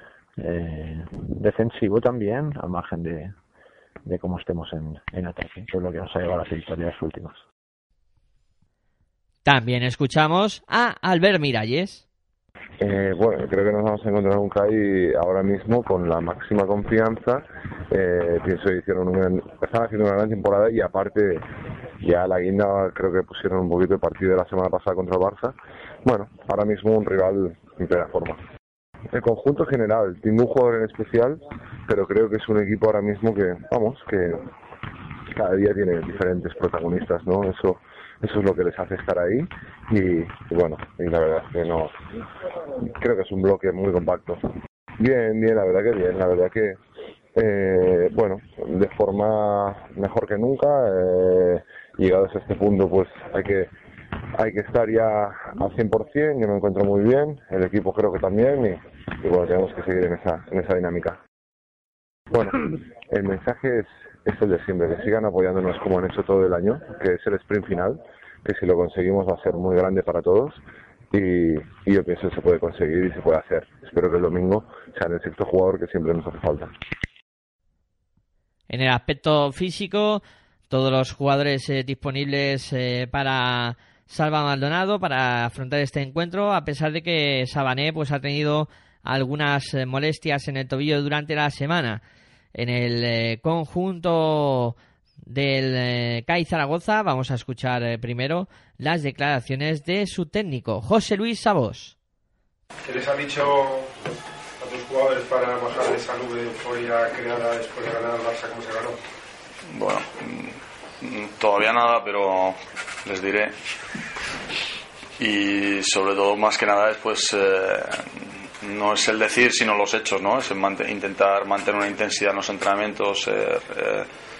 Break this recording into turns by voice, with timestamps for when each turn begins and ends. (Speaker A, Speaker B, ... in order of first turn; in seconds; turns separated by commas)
Speaker A: 0.4-3.3, Speaker A: 4.0-7.4, Speaker B: 9.4-12.0, Speaker C: 12.8-21.5, Speaker C: 22.0-28.4, Speaker C: 29.1-34.5, Speaker C: 35.3-41.9, Speaker C: 42.8-44.5, Speaker C: 45.0-46.8, Speaker C: 47.3-53.7, Speaker C: 54.3-61.2, Speaker C: 62.3-76.7, Speaker B: 78.7-92.0, Speaker B: 92.5-101.9, Speaker D: 102.8-104.0, Speaker D: 104.6-109.0, Speaker E: 109.7-113.5, Speaker E: 115.2-124.1